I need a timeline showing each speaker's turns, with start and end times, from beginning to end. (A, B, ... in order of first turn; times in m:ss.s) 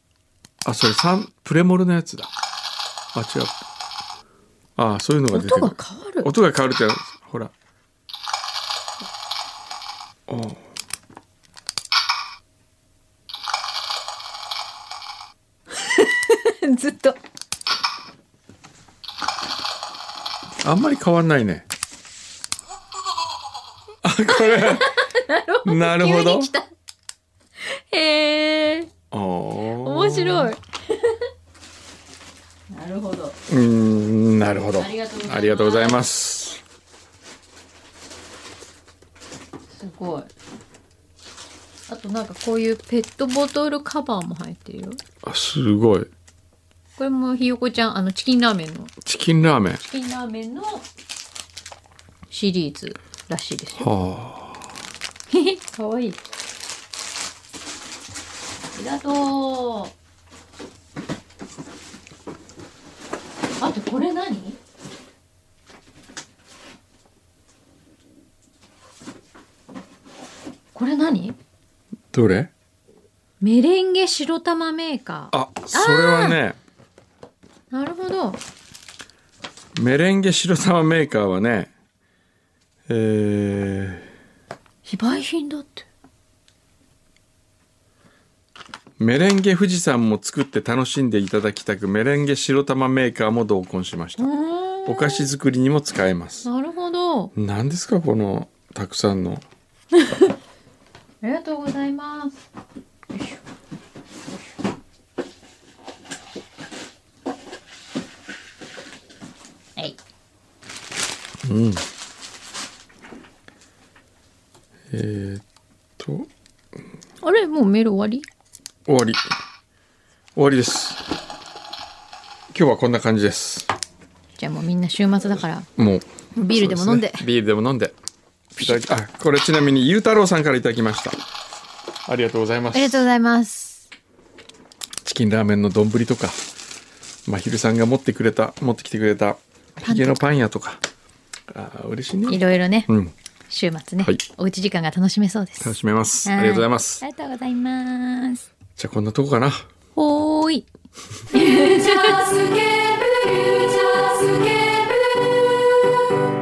0:00.6-0:02.3 A
0:03.1-0:03.6 A
0:04.8-0:07.5 A
0:05.3-0:06.3 B
0:10.3-0:10.6 A
0:15.8-0:17.2 B
0:20.6-0:21.6 A
0:24.0-0:24.9 A
0:24.3-0:26.7 B
0:25.6-0:26.5 A
0:27.6-0:28.9 B
0:29.1-0:30.5 A
0:29.8-0:31.2 B
0:32.7-0:33.4 B
0:33.5-0:36.6 A
0:34.7-0:36.0 B
0:39.7-0:40.3 B
0:41.9-0:45.0 B
0:45.2-0:46.1 A
0:47.0-0:48.9 B
0:49.0-0:49.8 A
0:49.8-0:50.9 B
0:52.3-0:53.9 B
0:53.8-0:54.7 A
0:55.3-0:56.2 B
0:58.7-0:59.9 B
1:03.6-1:04.6 B
1:10.7-1:11.4 B
1:12.1-1:12.5 A
1:13.4-1:16.4 B
1:15.3-1:16.6 A
1:17.7-1:18.4 B
1:19.7-1:21.7 A
1:22.9-1:24.1 A
1:24.8-1:25.8 B
1:29.0-1:34.3 A
1:34.2-1:35.3 B
1:34.8-1:36.5 A
1:36.4-1:37.3 B
1:37.3-1:39.4 A
1:41.2-1:42.4 B
1:43.1-1:43.4 B
1:51.4-1:51.8 A
1:54.9-1:55.4 A
1:56.0-1:56.3 A
1:57.2-1:58.2 B
1:58.8-1:59.2 A
2:00.4-2:01.0 A
2:02.5-2:03.7 A
2:04.4-2:05.7 B
2:05.8-2:07.9 A
2:06.3-2:07.2 B
2:08.6-2:11.2 A
2:12.0-2:13.0 A
2:12.7-2:13.9 B
2:15.0-2:16.4 A
2:17.2-2:20.8 A
2:19.8-2:20.2 B
2:21.5-2:23.1 A
2:22.3-2:22.9 B
2:23.5-2:28.4 B
2:25.6-2:27.0 A
2:28.8-2:29.7 A
2:30.0-2:30.7 B
2:31.3-2:32.2 B
2:31.3-2:36.0 C